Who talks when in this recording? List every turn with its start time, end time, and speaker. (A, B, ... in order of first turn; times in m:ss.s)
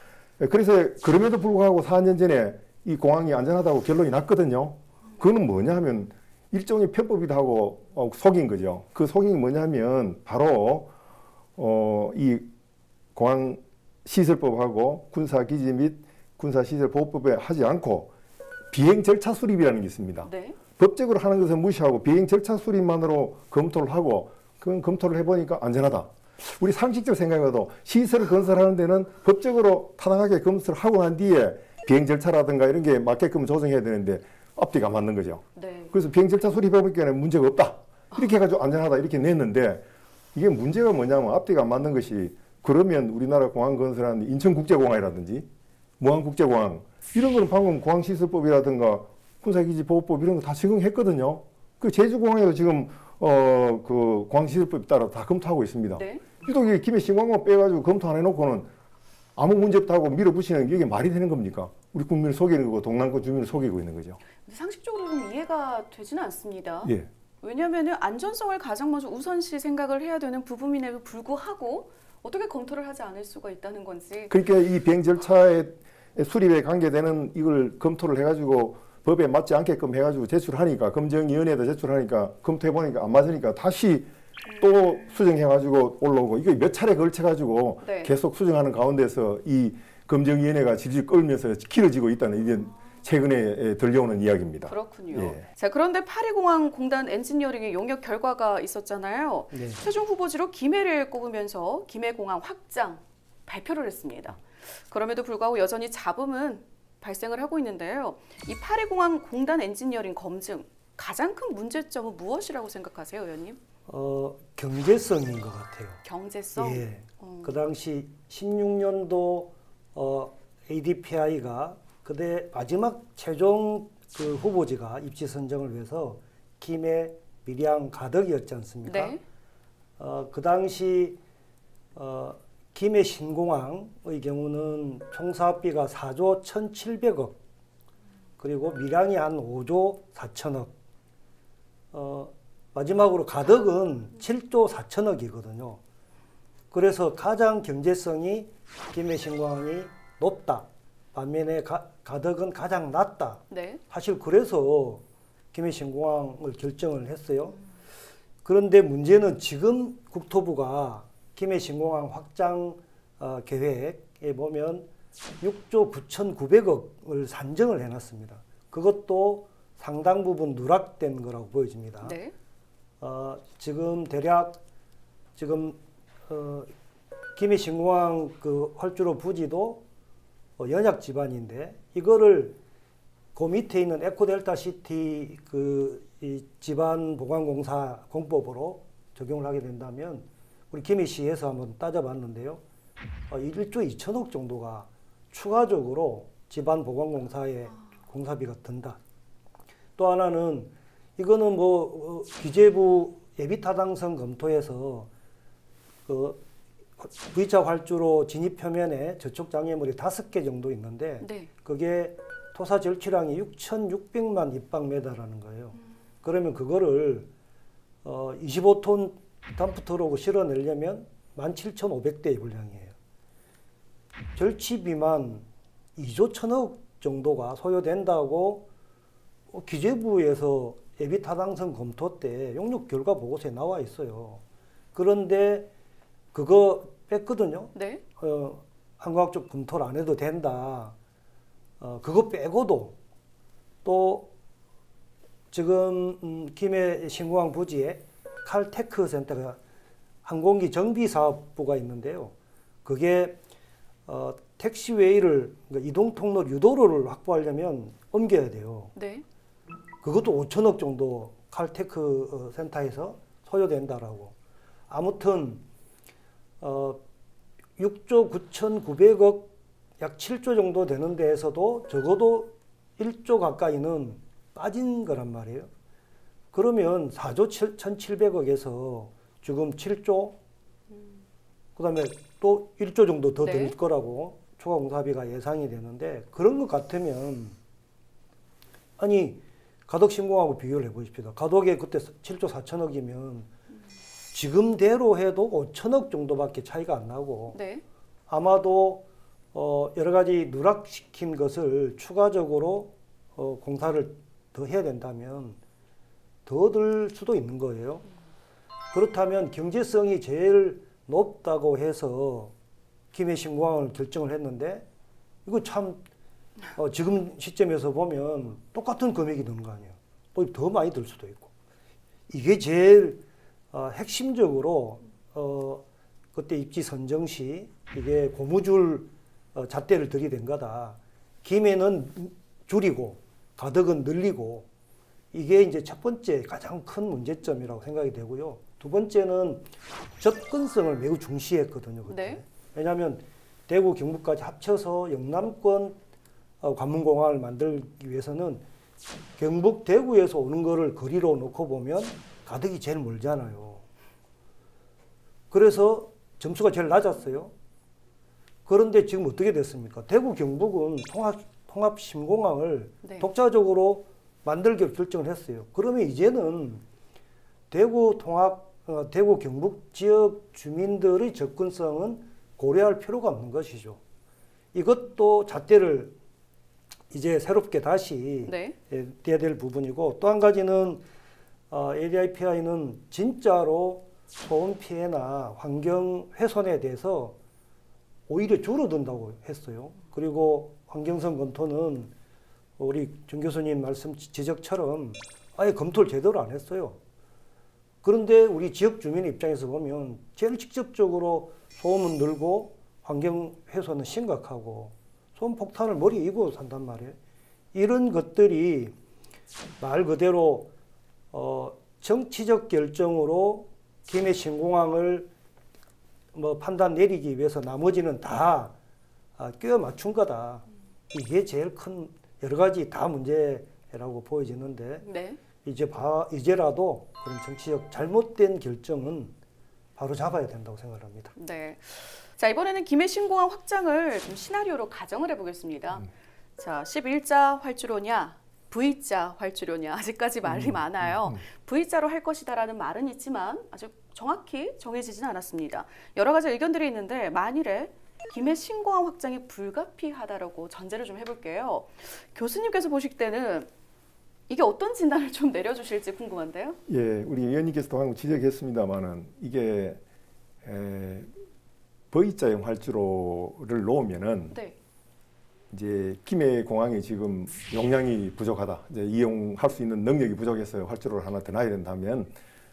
0:00.4-0:10.9 A
0:11.6-0:12.5 A
0:13.2-0:18.1 A
0:18.7-0:45.5 A
0:20.2-0:20.6 B
0:35.6-0:35.9 B
0:46.0-0:58.7 A
0:56.0-0:56.2 B
0:59.4-1:04.2 A
1:04.4-1:14.3 B
1:14.3-1:35.5 A
1:27.8-1:28.1 B
1:34.7-1:53.6 B
1:39.5-1:39.8 C
1:53.9-1:56.0 C
1:56.0-1:57.6 B
1:56.6-2:09.2 C
2:08.8-2:09.2 B
2:10.0-2:11.2 C
2:12.0-2:17.4 C
2:18.4-2:20.7 C
2:21.9-2:25.8 C
2:26.7-2:37.6 C
2:33.5-2:33.8 B
2:38.4-2:44.9 C
2:45.4-2:52.2 C
2:52.0-2:52.3 B
2:53.0-2:54.6 C
2:55.4-2:56.7 C
2:57.4-2:59.8 C
3:00.6-3:02.6 C
3:03.4-3:12.6 C
3:13.3-3:19.0 C
3:20.0-3:25.1 C
3:26.1-3:26.4 C
3:27.0-3:37.3 C
3:31.2-3:31.5 B
3:38.0-3:43.0 C
3:44.4-3:48.7 C
3:49.5-3:54.4 C
3:54.9-3:55.7 C
3:56.3-4:01.0 C
3:57.7-3:58.0 B
4:01.8-4:03.0 C
4:03.8-4:04.3 C
4:05.5-4:09.6 C
4:10.2-4:12.3 C
4:12.8-4:13.4 C
4:14.1-4:18.9 C
4:19.0-4:19.2 B
4:20.0-4:24.4 C
4:24.9-4:25.6 C
4:26.6-4:27.0 C
4:27.8-4:35.7 C
4:36.5-4:40.4 C
4:41.8-4:47.6 C
4:43.4-4:43.8 B
4:49.0-4:53.5 C
4:54.3-4:57.6 C
4:57.5-4:57.8 B
4:58.3-5:05.6 C
5:06.5-5:08.0 C
5:08.9-5:12.5 C
5:13.1-5:14.9 C
5:15.4-5:16.0 C
5:16.7-5:21.5 C
5:22.3-5:25.8 C
5:26.4-5:34.7 C
5:35.3-5:46.0 C
5:42.1-5:42.4 B
5:46.6-5:48.6 C
5:49.4-5:53.8 C
5:55.5-5:57.5 C
5:58.7-6:06.8 C
6:03.0-6:03.3 B
6:07.7-6:14.0 C
6:14.7-6:16.2 C
6:17.1-6:21.0 C
6:18.5-6:18.8 B
6:21.7-6:27.4 C
6:28.3-6:32.1 C
6:32.8-6:37.0 C
6:38.0-6:47.2 C
6:47.7-6:49.0 C
6:49.8-6:50.7 C
6:51.3-6:55.3 C
6:56.3-6:58.7 C
6:59.4-7:05.1 C
7:05.0-7:05.4 B
7:05.6-7:09.4 C
7:10.0-7:11.4 C
7:11.4-7:33.7 B
7:20.5-7:21.4 A
7:34.5-7:36.8 B
7:36.9-7:40.0 A
7:40.6-7:41.3 A
7:42.1-7:44.6 A
7:45.7-7:52.3 A